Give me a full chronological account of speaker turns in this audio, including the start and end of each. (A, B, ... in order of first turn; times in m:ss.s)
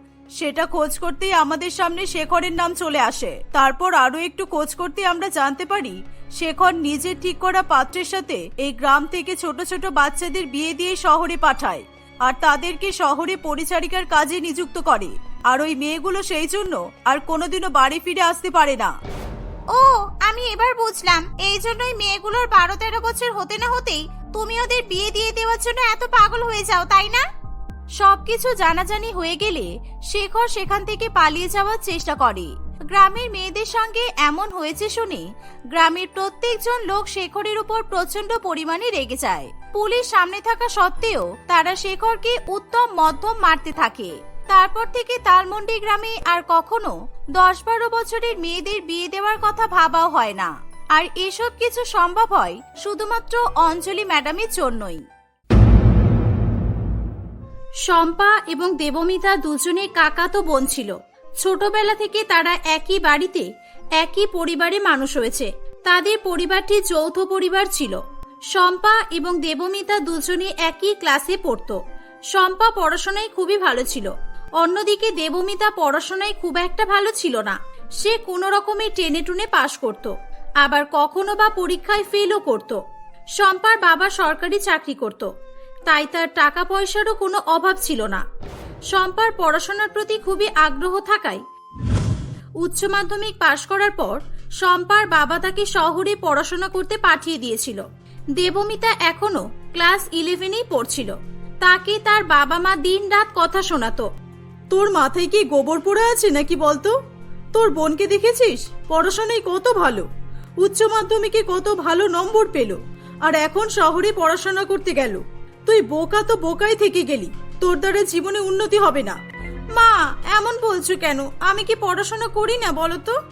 0:00.4-0:18.9 A
0:00.7-0:05.9 B
0:06.5-0:11.8 B
0:12.3-0:18.9 B
0:19.7-0:27.2 B
0:28.0-0:55.0 B
0:57.9-1:08.0 B
1:08.5-1:11.8 B
1:12.3-1:22.8 B
1:23.4-1:25.3 B
1:25.9-1:28.2 B
1:28.9-1:31.4 B
1:32.6-1:37.8 B
1:38.4-1:44.1 B
1:44.7-1:46.9 B
1:44.8-1:46.9 A
1:47.6-1:50.0 A
1:47.6-1:50.0 B
1:50.7-1:52.8 B
1:50.7-1:52.7 A
1:53.3-1:59.2 B
1:53.3-1:55.2 A
1:55.7-1:57.2 A
1:57.8-1:59.1 A
1:59.7-2:03.2 B